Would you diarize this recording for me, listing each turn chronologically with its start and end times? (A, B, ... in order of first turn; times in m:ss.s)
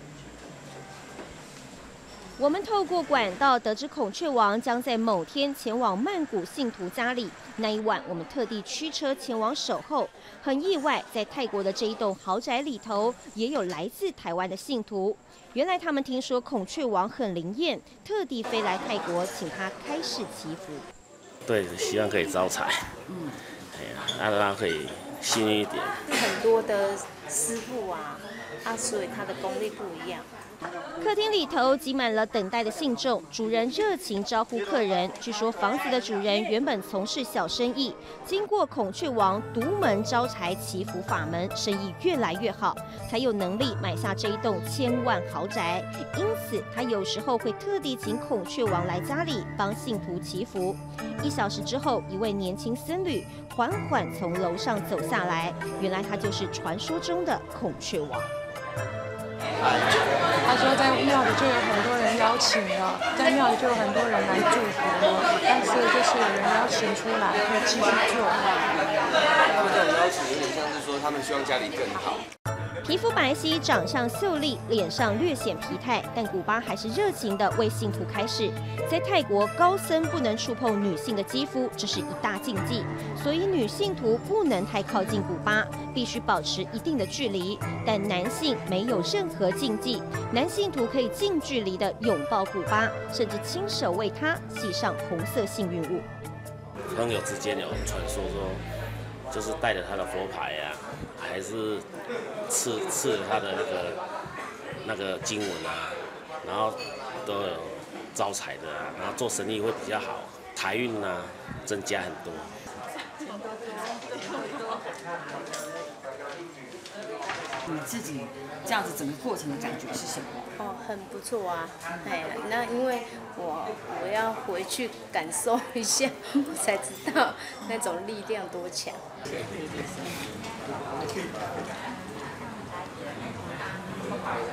0:02.4-0:20.8 A
0:21.4-0:22.9 B
0:23.7-0:26.0 B
0:26.1-0:30.3 C
0:31.0-0:58.3 A
1:00.4-1:08.5 D
1:09.6-1:12.2 E
1:12.8-1:36.0 A
1:36.9-1:38.6 B
1:39.3-1:41.8 B
1:42.5-1:44.0 B
1:44.8-1:52.5 B
1:57.7-2:00.2 F
2:00.6-2:09.0 C